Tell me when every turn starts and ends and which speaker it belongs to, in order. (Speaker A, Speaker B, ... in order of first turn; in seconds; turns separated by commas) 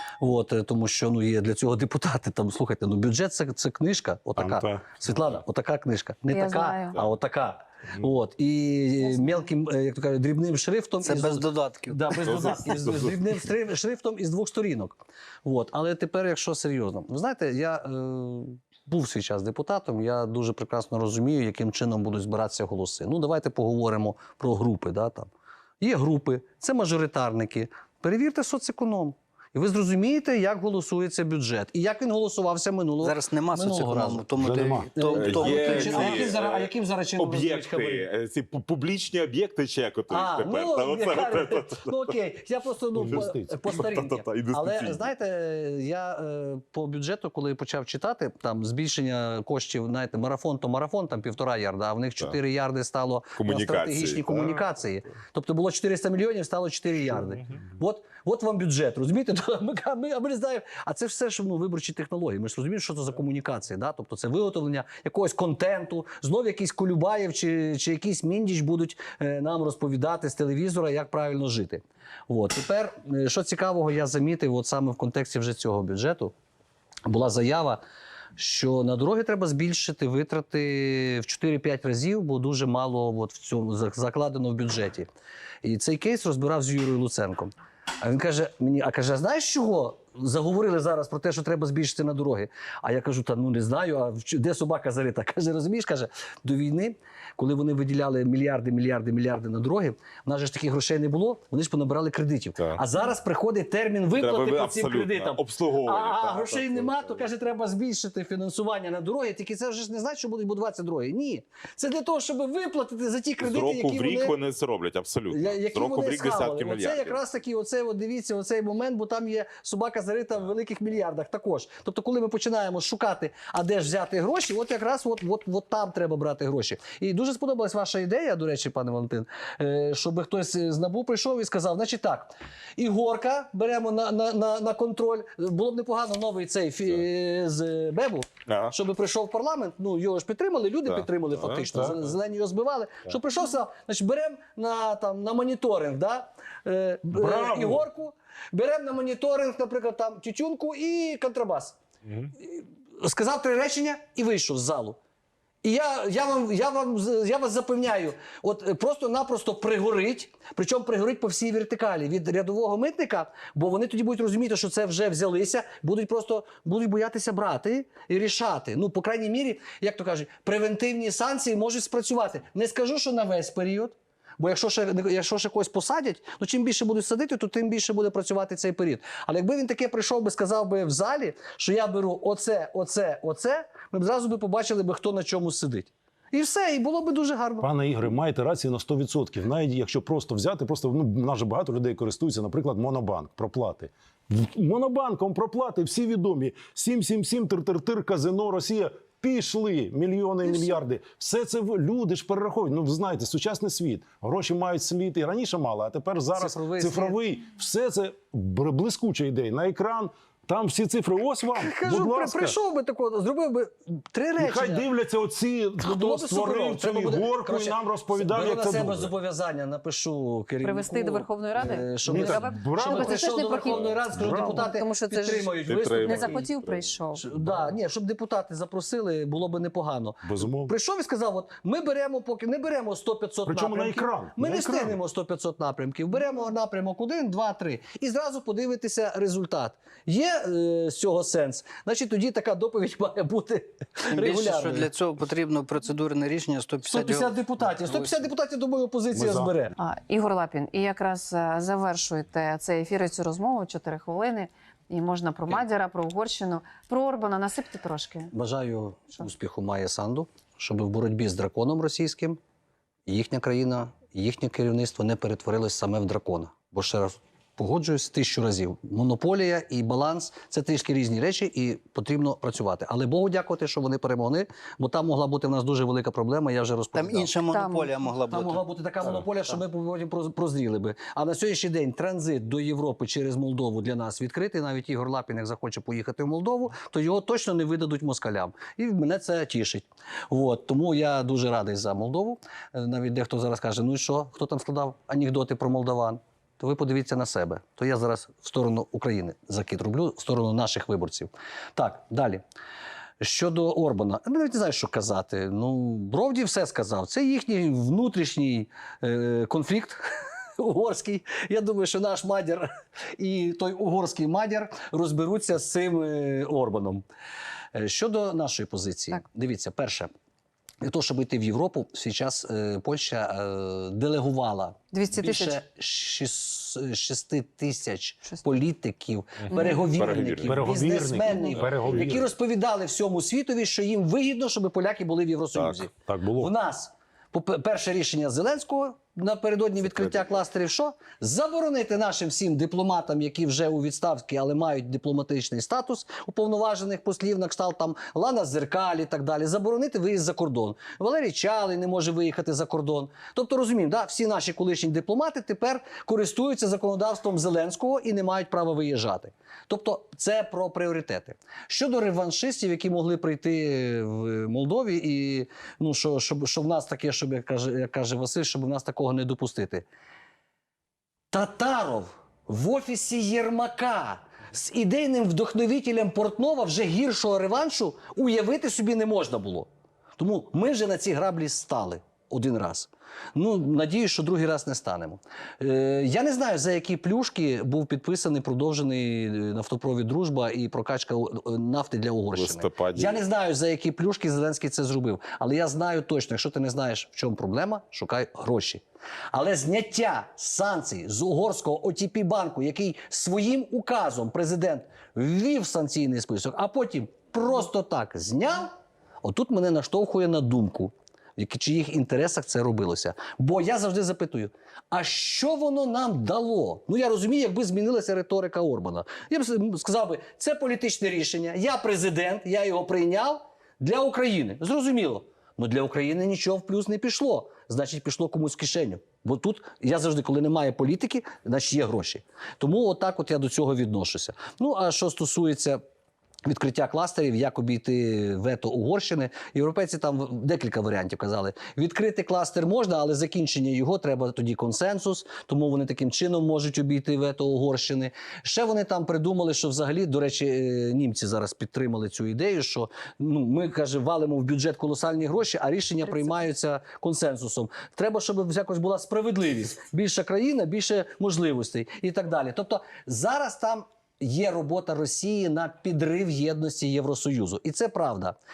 Speaker A: 0.2-34.3, Speaker B: 4.3-5.0, Speaker C: 6.3-7.0, Speaker D: 11.0-12.6, Speaker E: 12.3-13.2, Speaker D: 33.0-36.3, Speaker B: 34.4-35.6, Speaker A: 34.9-38.0, Speaker E: 35.1-42.1, Speaker A: 40.1-76.3, Speaker B: 42.9-43.7, Speaker E: 43.6-45.1, Speaker E: 53.4-54.6, Speaker A: 77.0-77.8, Speaker A: 78.3-85.1, Speaker A: 85.6-114.3, Speaker E: 104.1-107.3, Speaker E: 113.4-117.2, Speaker A: 115.3-151.8, Speaker E: 138.4-138.7, Speaker E: 140.8-141.6, Speaker B: 147.1-147.9, Speaker A: 152.3-155.0, Speaker A: 155.6-187.7, Speaker B: 187.6-212.6, Speaker A: 200.4-200.8, Speaker A: 206.3-207.2, Speaker A: 211.5-214.9, Speaker B: 214.4-219.1, Speaker A: 215.8-226.5, Speaker C: 220.6-227.2, Speaker B: 222.1-223.3, Speaker B: 223.9-224.7, Speaker E: 225.6-226.9, Speaker A: 227.1-244.9, Speaker B: 227.3-227.8, Speaker B: 230.2-230.7, Speaker B: 233.4-235.0, Speaker D: 244.1-248.2, Speaker A: 246.8-249.7, Speaker B: 249.1-249.5, Speaker C: 249.8-258.3, Speaker A: 258.3-262.4, Speaker A: 263.1-277.4, Speaker D: 276.9-278.6, Speaker C: 277.5-277.9, Speaker A: 278.3-302.4, Speaker A: 303.2-317.0, Speaker A: 317.7-320.1, Speaker A: 320.8-369.9, Speaker C: 324.9-325.6, Speaker E: 329.4-330.7, Speaker B: 330.5-332.3, Speaker E: 331.7-332.0, Speaker B: 335.9-336.5, Speaker A: 371.3-435.8, Speaker E: 392.3-393.2, Speaker A: 436.4-468.4